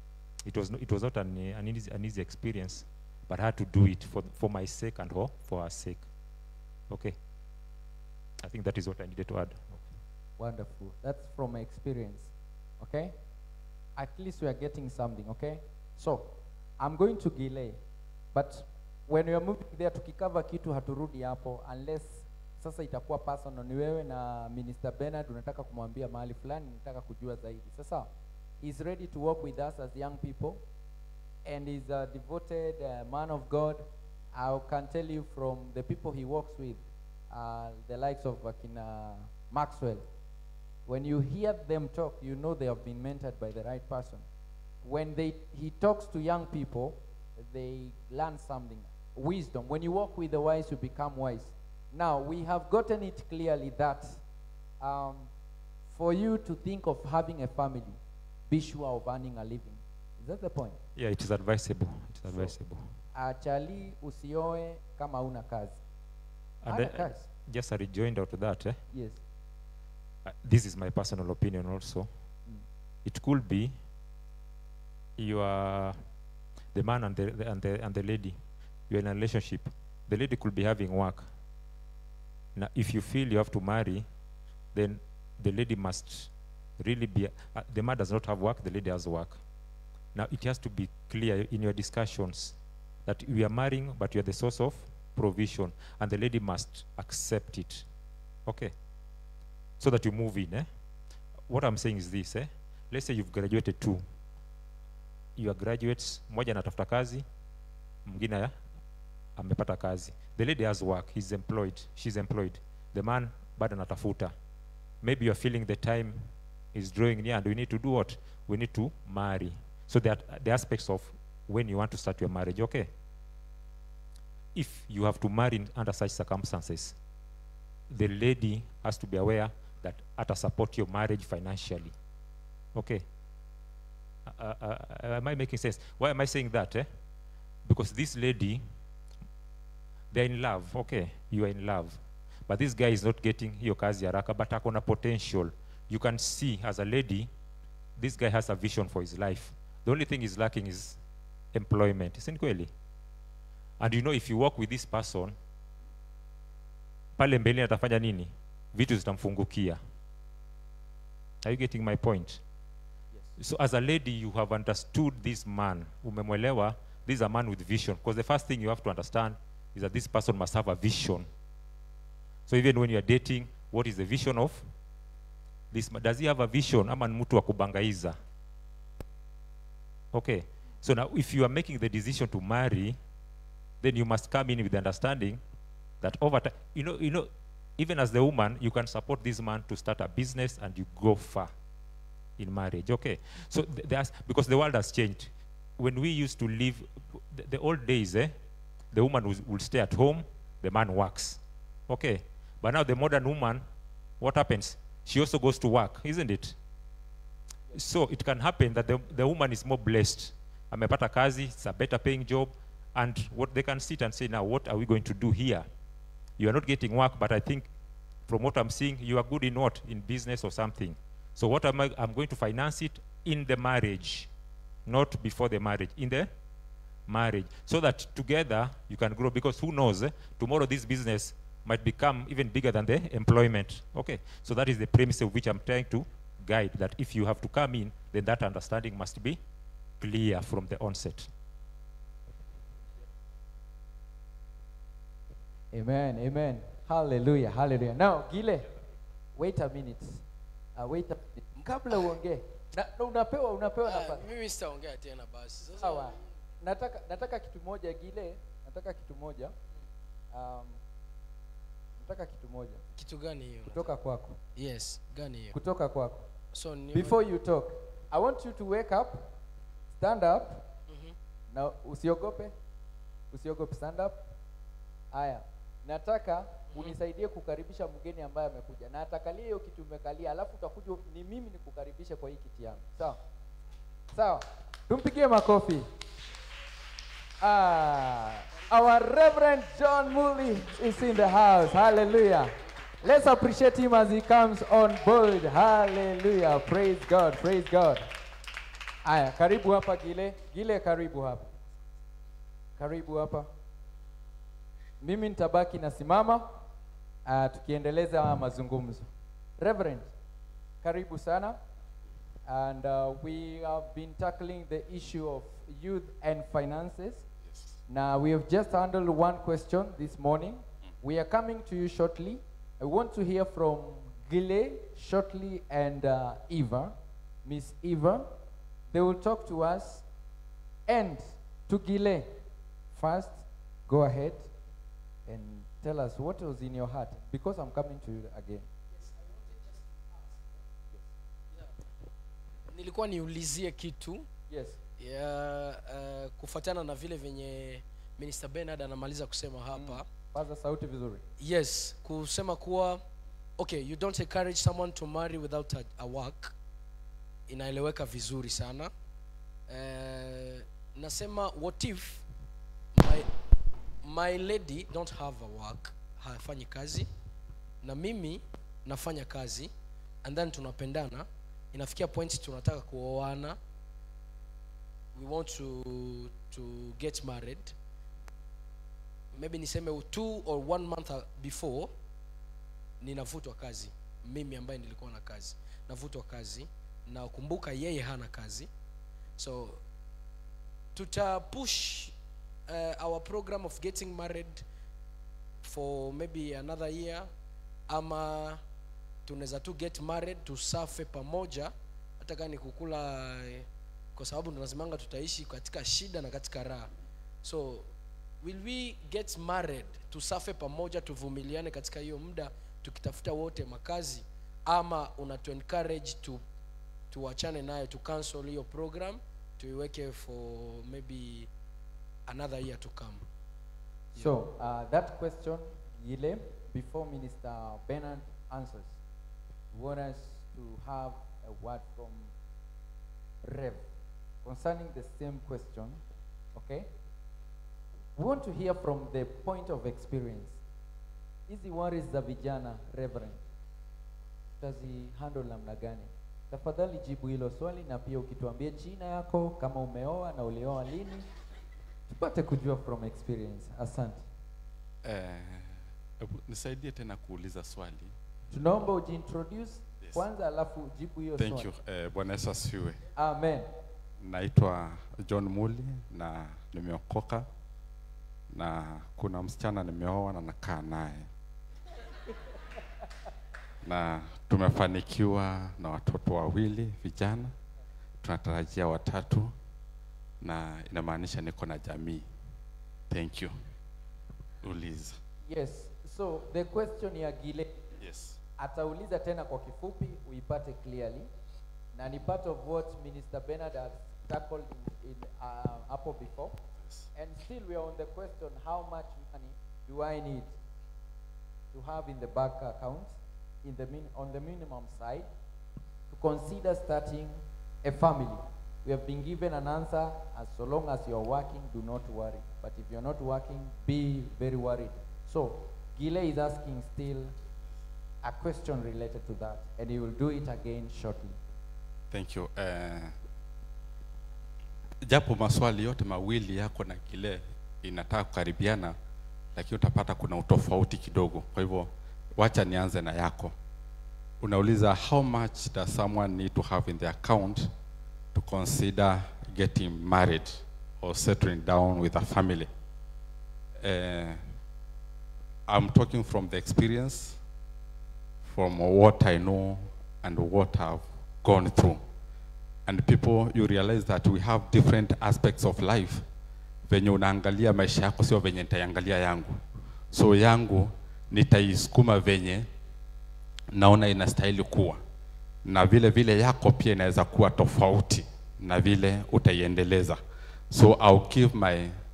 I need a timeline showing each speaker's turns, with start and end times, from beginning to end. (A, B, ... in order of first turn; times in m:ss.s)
0:00.4-0:06.0 A
0:06.9-0:07.2 A
0:08.4-0:09.9 A
0:10.4-0:13.1 B
0:14.0-0:17.8 B
0:18.3-0:30.6 B
0:31.4-0:40.1 B
0:40.8-0:44.2 B
0:44.8-0:54.2 B
0:54.8-0:55.3 B
0:55.9-0:58.0 B
0:58.5-1:00.8 B
1:01.0-1:02.9 A
1:03.1-1:05.8 B
1:06.6-1:08.8 A
1:06.7-1:07.2 B
1:08.9-1:09.2 B
1:10.2-1:12.1 A
1:13.0-1:13.7 A
1:15.2-1:16.0 A
1:16.7-1:18.4 A
1:18.9-1:21.2 A
1:22.6-1:24.0 A
1:24.7-1:29.4 A
1:30.1-1:37.8 A
1:38.4-1:38.7 A
1:39.8-1:40.7 A
1:41.5-1:44.0 A
1:45.4-1:47.2 A
1:48.0-1:48.5 A
1:49.4-1:54.3 A
1:55.0-2:02.9 A
2:04.5-2:07.0 A
2:07.9-2:11.9 A
2:12.7-2:13.0 A
2:14.3-2:16.8 A
2:17.6-2:18.6 A
2:20.1-2:27.3 A
2:28.0-2:31.0 A
2:31.5-2:32.7 A
2:33.8-2:35.4 A
2:37.2-2:39.8 A
2:41.4-2:42.4 A
2:43.4-2:51.2 A
2:52.5-2:54.6 A
2:55.7-2:58.2 A
3:00.1-3:03.0 A
3:03.8-3:05.4 A
3:06.0-3:11.5 A
3:12.4-3:18.3 A
3:18.9-3:23.6 A
3:24.2-3:26.6 A
3:27.7-3:35.6 A
3:36.4-3:37.7 A
3:38.3-3:44.3 A
3:44.8-3:46.3 A
3:47.1-3:59.4 A
4:00.0-4:01.3 A
4:05.7-4:08.7 B
4:09.3-4:10.2 B
4:10.8-4:14.3 B
4:13.8-4:16.1 C
4:15.8-4:19.5 B
4:20.3-4:20.8 B
4:22.0-4:22.8 B
4:23.0-4:23.9 C
4:23.7-4:24.4 B
4:24.6-4:25.6 C
4:25.5-4:26.3 B
4:26.5-4:27.2 C
4:26.9-4:29.3 B
4:30.0-4:30.7 B
4:30.9-4:31.1 C
4:31.5-4:32.5 B
4:33.3-4:34.2 B
4:35.1-4:43.2 B
4:44.1-4:45.9 B
4:47.4-4:58.1 B
4:59.0-5:01.6 B
5:02.8-5:03.5 B
5:05.0-5:06.5 B
5:07.2-5:10.1 B
5:10.8-5:11.6 B
5:12.4-5:17.2 B
5:17.9-5:26.9 B
5:27.4-5:28.3 B
5:28.9-5:30.0 B
5:30.9-5:32.4 B
5:32.9-5:34.5 B
5:35.2-5:38.7 B
5:42.7-5:44.3 C
5:44.5-5:44.8 B
5:45.0-5:50.0 C
5:49.7-5:51.2 B
5:51.4-5:53.0 C
5:53.6-5:56.6 C
5:57.5-5:58.9 C
5:59.7-6:02.2 C
6:02.9-6:03.3 C
6:04.0-6:07.1 C
6:07.8-6:09.7 C
6:10.2-6:13.6 C
6:15.1-6:17.8 C
6:19.3-6:21.9 C
6:23.0-6:28.7 C
6:29.4-6:29.8 C
6:30.9-6:32.2 C
6:32.7-6:34.6 C
6:35.6-6:37.3 C
6:37.9-6:38.6 C
6:39.2-6:46.9 C
6:47.4-6:47.9 C
6:48.4-6:56.4 C
6:57.1-7:01.5 C
7:02.3-7:03.2 C
7:04.1-7:09.0 B
7:09.7-7:12.3 B
7:13.4-7:13.9 B
7:14.4-7:16.0 B
7:16.5-7:16.9 B
7:18.2-7:20.6 B
7:21.5-7:23.4 B
7:24.6-7:31.2 B
7:32.1-7:34.2 B
7:35.0-7:35.7 D
7:36.2-7:38.1 D
7:38.5-7:41.7 B
7:41.4-7:43.0 D
7:43.2-7:43.7 B
7:44.2-7:47.5 D
7:48.5-7:51.3 D
7:53.8-7:57.5 D
7:58.2-7:59.5 D
8:00.4-8:02.2 D
8:03.1-8:03.5 D
8:04.6-8:05.2 D
8:05.4-8:07.8 B
8:08.0-8:08.4 D
8:08.6-8:11.3 B
8:11.9-8:16.6 B
8:17.1-8:20.5 B
8:21.7-8:25.3 B
8:26.1-8:37.3 B
8:38.2-8:41.4 B
8:42.1-8:43.1 D
8:45.0-8:49.0 D
8:49.5-8:53.5 D
8:54.4-8:57.7 D
8:58.3-9:02.7 D
9:03.8-9:04.4 D
9:05.7-9:07.4 D
9:08.4-9:12.0 D
9:12.8-9:16.2 D
9:16.9-9:19.6 D
9:20.1-9:22.7 D
9:23.7-9:25.0 D
9:25.6-9:30.2 D
9:30.7-9:31.9 D